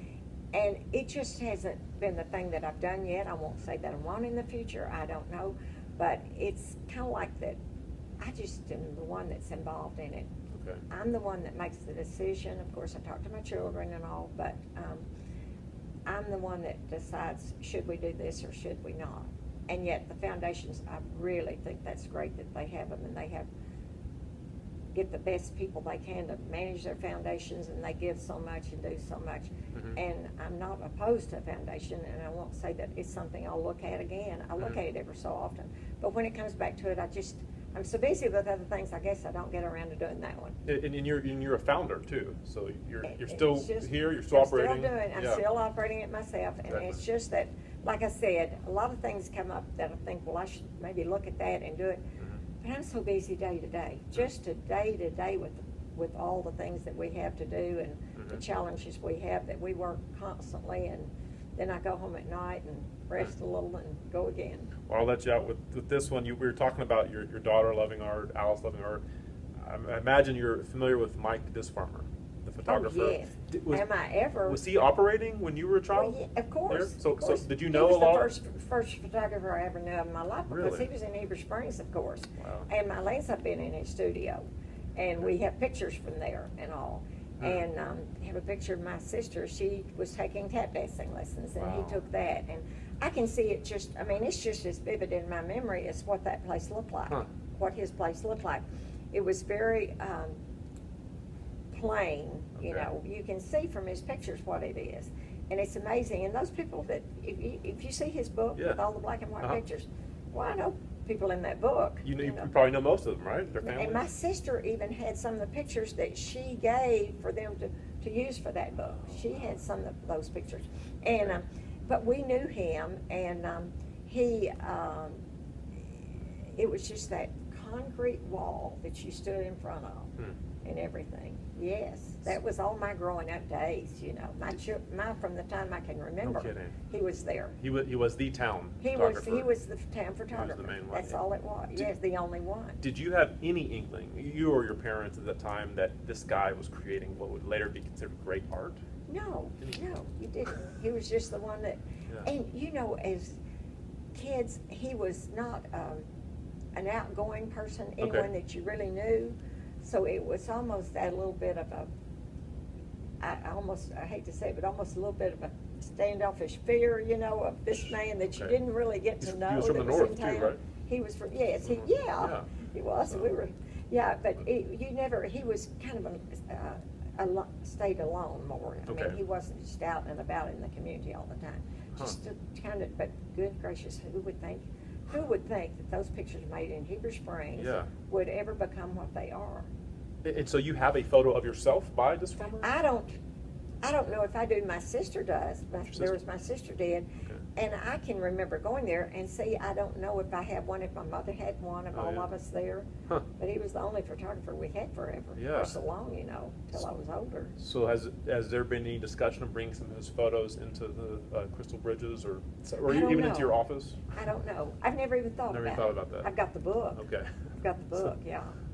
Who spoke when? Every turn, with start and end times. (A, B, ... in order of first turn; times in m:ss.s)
0:00.5-0:07.6 A
0:08.2-0:10.3 A
0:10.5-0:10.8 B
0:10.9-0:15.0 A
0:16.0-0:23.5 A
0:24.9-0:40.6 A
0:29.7-0:30.0 B
0:40.6-0:45.4 B
0:43.0-0:52.0 A
0:46.7-0:46.9 B
0:52.6-1:04.7 A
1:04.9-1:09.0 B
1:09.6-1:13.8 B
1:12.6-1:14.6 A
1:14.5-1:16.2 B
1:15.9-1:24.4 A
1:16.7-1:18.3 B
1:20.5-1:20.9 B
1:22.4-1:22.7 B
1:25.0-1:40.4 A
1:27.4-1:27.6 B
1:31.6-1:32.0 B
1:41.7-1:52.5 A
1:42.6-1:42.9 B
1:48.6-1:48.8 B
1:52.0-1:54.0 B
1:53.6-2:05.2 A
2:06.5-2:10.1 A
2:10.6-2:17.6 A
2:16.2-2:16.7 B
2:17.6-2:19.5 B
2:18.8-2:22.8 A
2:20.3-2:21.2 B
2:22.8-2:28.8 B
2:29.1-2:33.4 A
2:34.1-2:36.0 A
2:36.7-2:41.9 A
2:38.0-2:38.3 B
2:43.2-3:09.7 A
2:49.2-2:50.6 B
2:51.7-2:52.5 B
2:58.9-2:59.2 B
3:07.6-3:07.9 B
3:10.2-3:12.7 B
3:12.6-3:13.2 A
3:13.8-3:27.6 A
3:21.9-3:22.3 B
3:25.4-3:25.7 B
3:27.6-3:34.0 B
3:32.8-3:33.6 A
3:34.1-3:37.0 A
3:35.5-3:36.3 B
3:37.0-3:37.5 B
3:37.6-3:38.6 A